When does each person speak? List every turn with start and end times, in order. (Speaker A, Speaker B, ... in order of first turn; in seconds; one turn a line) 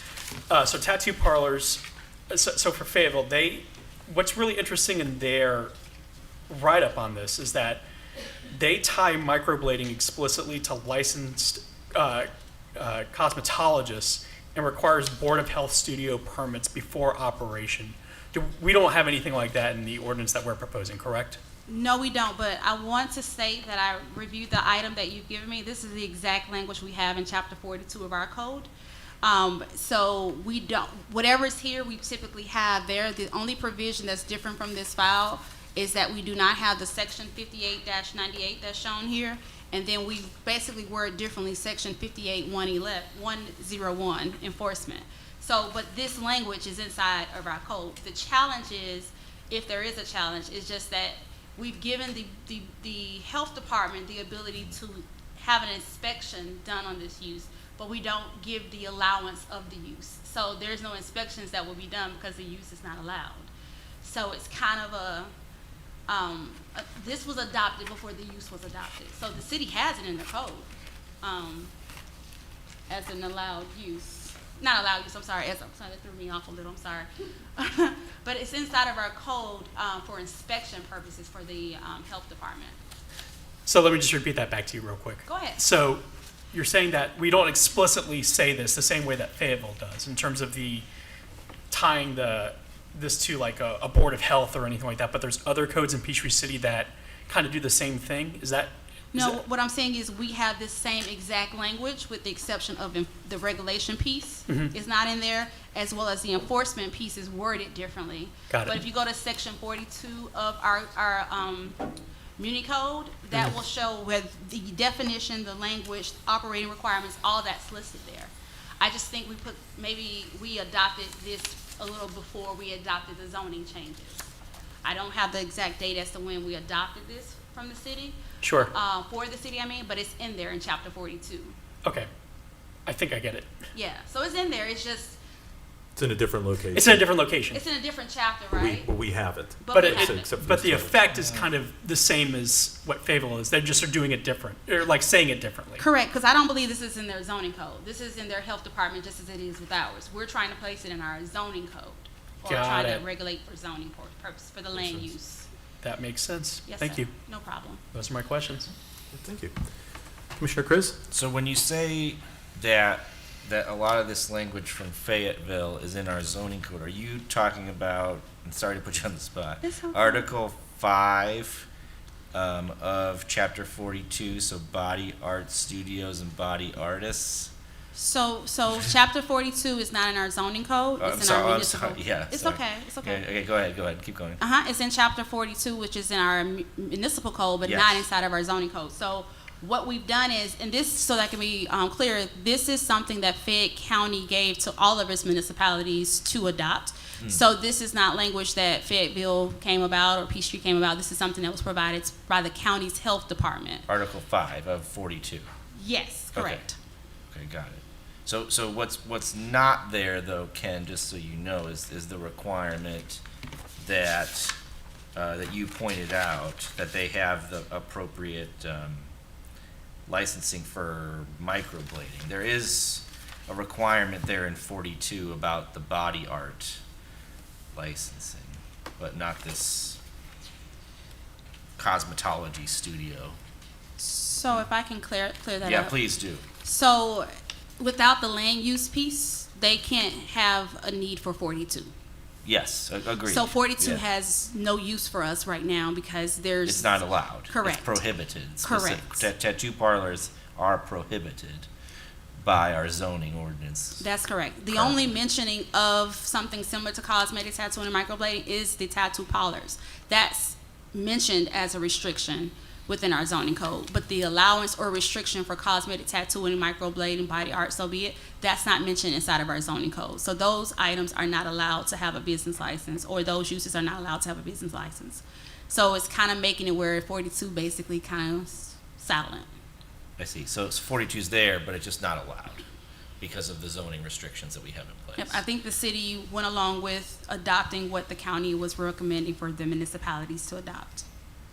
Speaker A: 0.5-5.7
Speaker A: 6.5-7.8
Speaker A: 8.5-21.4
Speaker B: 21.7-28.7
Speaker B: 29.2-63.5
Speaker B: 64.0-65.3
Speaker B: 66.1-70.7
Speaker B: 71.2-71.7
Speaker B: 72.9-82.8
Speaker A: 83.7-90.8
Speaker B: 85.2-85.6
Speaker A: 91.7-99.4
Speaker B: 99.1-111.8
Speaker A: 108.5-108.8
Speaker B: 112.4-124.3
Speaker B: 124.8-131.5
Speaker A: 128.4-128.7
Speaker A: 132.8-133.5
Speaker B: 133.7-135.2
Speaker C: 135.9-137.0
Speaker A: 136.7-137.6
Speaker B: 137.5-138.9
Speaker C: 138.5-141.4
Speaker B: 139.6-140.3
Speaker A: 139.7-145.8
Speaker B: 145.8-155.5
Speaker A: 152.4-153.0
Speaker A: 155.8-157.1
Speaker B: 156.7-157.8
Speaker A: 157.9-158.7
Speaker C: 159.1-159.5
Speaker C: 160.3-161.0
Speaker D: 161.1-171.7
Speaker B: 169.6-170.2
Speaker D: 172.3-177.5
Speaker B: 177.9-183.2
Speaker D: 181.0-184.4
Speaker B: 184.4-203.8
Speaker D: 187.6-188.1
Speaker D: 203.9-205.5
Speaker B: 205.7-206.8
Speaker D: 206.3-206.6
Speaker D: 207.3-213.2
Speaker D: 213.8-214.6
Speaker D: 215.1-219.1
Speaker D: 220.1-226.8
Speaker D: 227.7-230.0
Speaker D: 231.8-233.4
Speaker B: 234.0-236.0
Speaker D: 235.6-236.4
Speaker B: 236.6-241.9
Speaker D: 242.4-244.0
Speaker B: 243.2-248.0
Speaker D: 246.6-251.7
Speaker B: 248.6-249.3
Speaker D: 252.4-254.1
Speaker B: 254.0-279.5
Speaker D: 254.7-255.1
Speaker D: 280.2-282.6
Speaker D: 283.2-285.4
Speaker B: 285.2-291.0